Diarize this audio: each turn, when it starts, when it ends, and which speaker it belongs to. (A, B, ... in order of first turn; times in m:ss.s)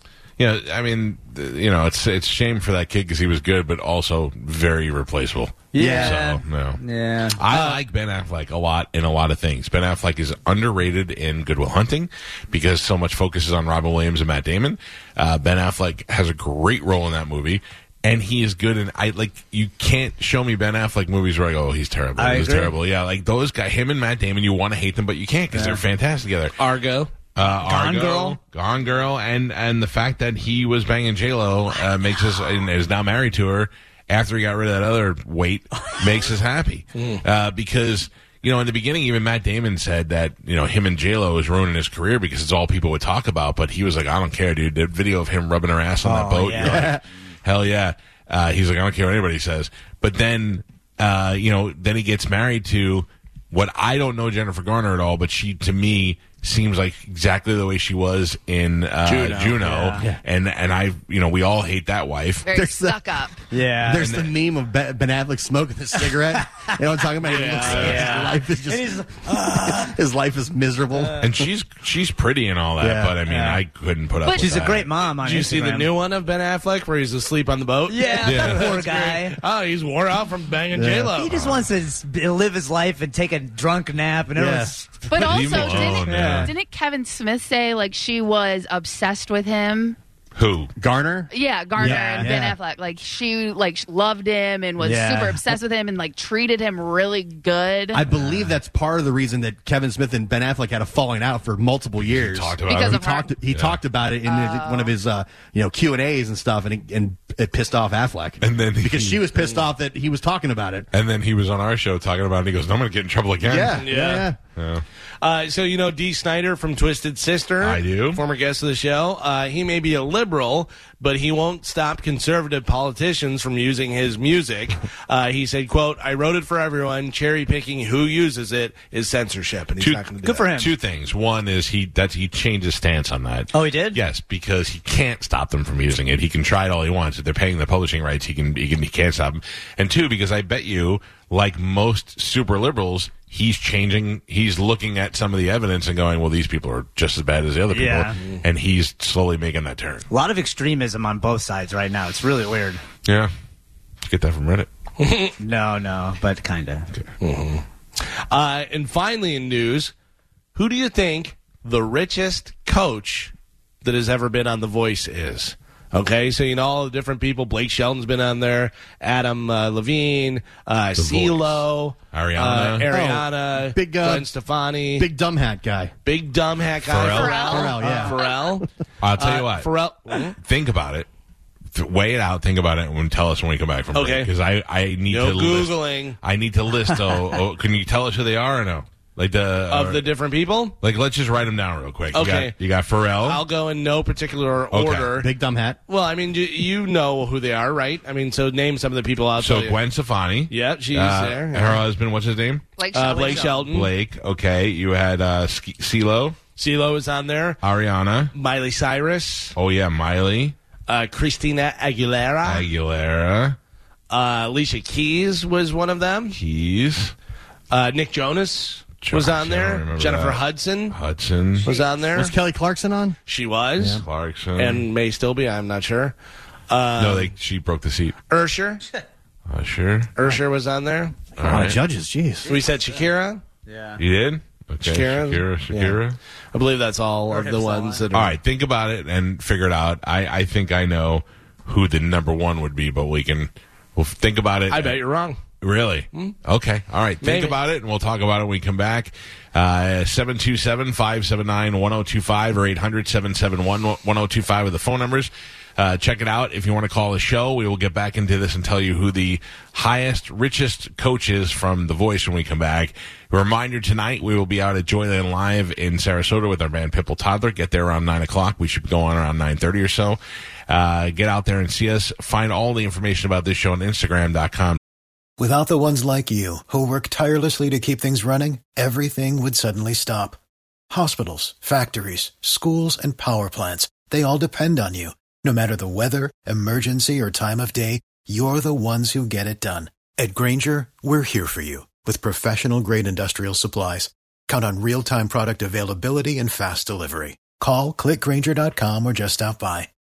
0:00.4-0:26.5 A
0:05.7-0:07.4 B
0:05.8-0:06.2 C
0:07.5-0:07.8 D
0:22.2-0:22.7 B
0:25.5-0:25.8 B
0:26.6-0:27.1 D
0:27.3-1:02.5 A
0:27.6-0:28.4 B
0:36.9-0:37.2 D
0:46.0-0:46.9 B
0:46.6-0:47.0 C
0:59.0-0:59.8 D
0:59.6-1:00.1 B
1:02.4-1:03.4 E
1:02.5-1:03.0 C
1:03.5-1:04.1 B
1:03.8-1:11.2 C
1:03.9-1:04.3 A
1:06.4-1:06.7 B
1:07.2-1:08.3 D
1:07.4-1:10.0 B
1:07.6-1:08.1 A
1:11.2-1:14.9 A
1:12.8-1:13.2 C
1:13.2-1:13.6 B
1:14.2-1:14.6 E
1:14.3-1:15.9 B
1:15.0-1:21.4 D
1:17.9-1:19.4 B
1:18.2-1:18.7 A
1:20.7-1:21.2 C
1:21.2-1:25.1 B
1:21.3-1:21.6 A
1:24.4-1:25.0 C
1:25.1-1:30.0 E
1:25.1-1:26.5 A
1:25.6-1:26.5 B
1:30.3-1:30.7 A
1:30.8-1:32.6 C
1:31.3-1:38.0 E
1:31.8-1:32.4 B
1:34.8-1:35.5 B
1:37.9-1:50.9 C
1:42.0-1:43.8 A
1:42.6-1:43.3 E
1:44.2-1:44.9 E
1:48.4-1:49.2 A
1:50.9-1:53.8 A
1:53.4-1:54.4 C
1:53.8-1:54.3 D
1:54.5-1:54.8 A
1:55.2-2:10.4 D
1:57.6-1:58.2 A
2:09.8-2:30.1 A
2:10.2-2:10.8 B
2:13.5-2:14.0 B
2:27.7-2:28.2 B
2:30.1-2:32.8 B
2:33.0-2:33.3 A
2:34.0-2:34.7 A
2:35.0-2:35.3 D
2:35.4-2:36.9 B
2:37.2-2:39.9 D
2:40.5-2:43.3 D
2:43.8-2:55.1 D
2:51.0-2:52.9 A
2:52.9-2:54.3 C
2:55.0-2:55.9 C
2:56.0-2:58.6 D
2:56.8-2:57.4 A
2:57.0-2:58.6 E
2:57.4-2:58.2 C
2:59.0-2:59.7 A
2:59.2-3:00.4 D
3:00.4-3:01.1 A
3:01.7-3:10.1 A
3:03.9-3:04.3 D
3:05.1-3:06.2 D
3:09.7-3:10.8 D
3:10.8-3:13.4 A
3:12.1-3:12.6 D
3:13.2-3:15.3 D
3:14.7-3:15.1 A
3:15.2-3:15.8 C
3:15.9-3:19.8 D
3:19.4-3:22.6 A
3:20.5-3:21.8 D
3:22.8-3:23.7 E
3:22.9-3:23.9 D
3:23.6-3:26.4 A
3:26.6-3:27.6 D
3:27.6-3:28.3 A
3:28.3-3:29.5 D
3:29.5-3:30.5 A
3:30.9-3:32.7 D
3:32.4-3:33.6 A
3:34.1-3:36.4 D
3:36.3-3:37.1 A
3:37.7-3:41.0 D
3:39.0-3:41.7 A
3:41.6-3:42.3 D
3:41.9-3:43.2 C
3:43.3-3:44.0 D
3:43.8-3:44.0 C
3:43.9-3:44.8 A
3:44.5-3:46.1 D
3:46.7-3:47.3 D
3:47.0-3:48.2 A
3:48.3-3:48.8 D
3:49.5-3:50.1 A
3:50.2-3:51.3 D
3:51.4-3:51.8 A
3:51.4-3:52.5 C
3:52.5-3:53.4 D
3:53.7-3:54.0 B
3:54.0-3:56.2 A
3:54.8-3:56.0 D
3:56.5-3:58.4 D
3:57.3-3:58.0 B
3:58.1-4:05.0 A
4:04.7-4:05.4 D
4:05.6-4:34.8 A
4:07.2-4:07.6 D
4:35.4-4:40.4 F
4:40.9-4:59.9 F